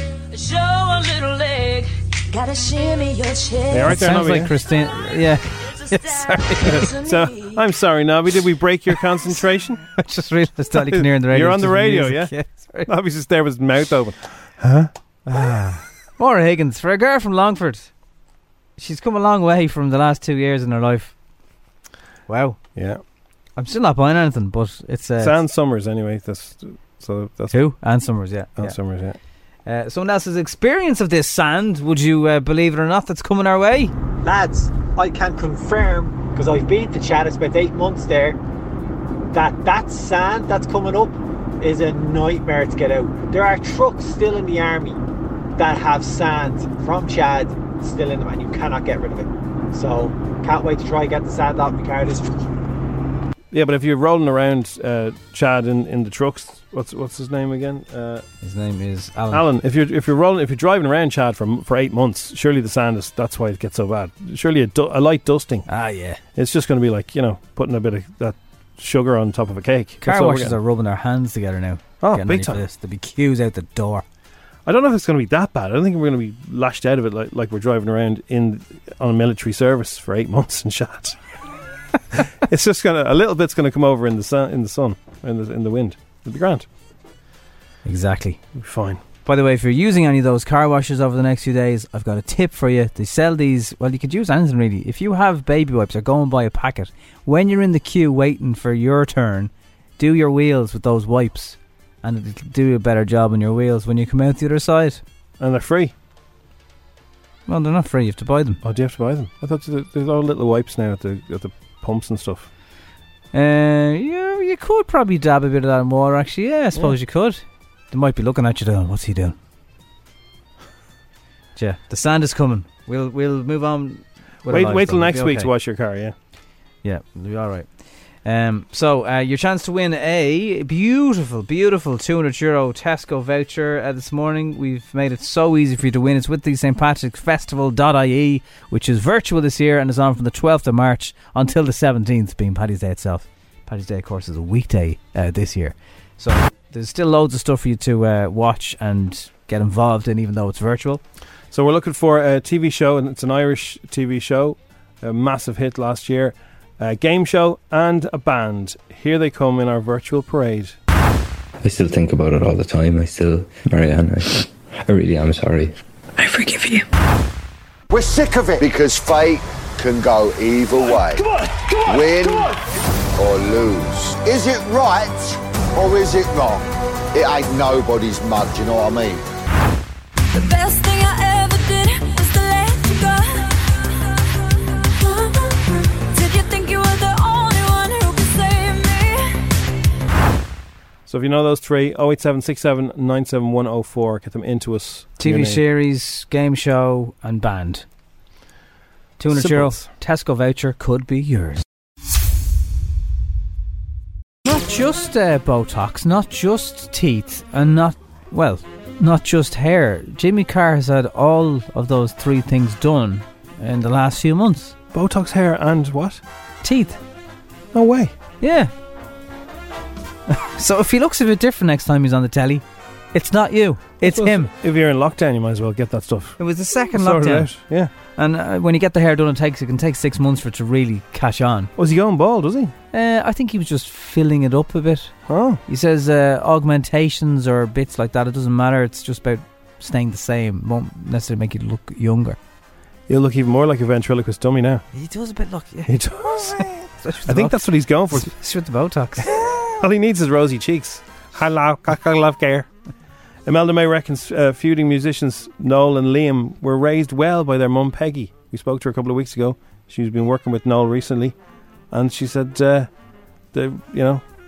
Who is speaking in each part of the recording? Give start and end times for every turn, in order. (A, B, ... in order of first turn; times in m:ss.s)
0:00.3-0:04.0 A
0:03.7-0:04.6 B
0:03.9-0:06.9 C
0:05.7-0:07.6 A
0:06.7-0:09.8 B
0:09.9-0:12.9 C
0:10.8-0:12.3 B
0:12.9-0:14.9 B
0:15.3-0:17.9 C
0:18.8-0:21.1 C
0:22.3-0:22.6 C
0:22.8-0:23.0 B
0:23.6-0:25.4 C
0:25.2-0:27.6 B
0:27.5-0:28.8 C
0:28.6-0:29.2 B
0:29.6-0:33.9 C
0:34.2-0:38.4 D
0:39.3-0:45.0 D
0:45.6-0:52.4 D
0:53.5-0:58.2 B
0:58.4-0:59.5 C
0:59.3-1:05.6 B
1:05.7-1:06.2 C
1:06.4-1:10.6 B
1:10.0-1:14.0 C
1:12.0-1:12.6 B
1:14.7-1:21.2 B
1:22.2-1:26.7 B
1:27.8-1:28.4 C
1:28.6-1:29.0 B
1:29.2-1:45.0 C
1:45.4-1:45.9 B
1:47.5-1:48.6 C
1:48.6-1:52.5 B
1:53.3-1:59.4 C
2:01.6-2:05.5 C
2:04.5-2:06.1 B
2:06.8-2:31.0 C
2:31.5-2:40.8 B
2:41.6-2:45.7 E
2:46.2-2:46.8 A
2:47.9-2:51.3 F
2:51.9-2:52.6 F
2:53.2-2:59.2 F
3:00.3-3:09.4 A
3:11.1-3:15.6 B
3:15.2-3:17.9 C
3:19.2-3:21.6 C
3:19.3-3:19.9 B
3:24.4-3:34.8 C
3:34.9-3:36.2 B
3:36.6-3:37.0 C
3:37.7-3:38.1 B
3:38.4-3:38.7 C
3:40.3-3:42.6 C
3:43.1-3:44.5 C
3:44.0-3:47.9 B
3:46.4-3:47.6 C
3:48.2-3:51.7 C
3:51.8-3:52.7 B
3:52.9-4:02.4 C
3:55.3-3:55.6 B
4:03.1-4:04.8 B
4:04.9-4:09.4 C
4:05.9-4:08.3 B
4:09.2-4:12.7 B
4:13.5-4:21.3 B
4:21.9-4:22.9 B
4:23.5-4:24.2 B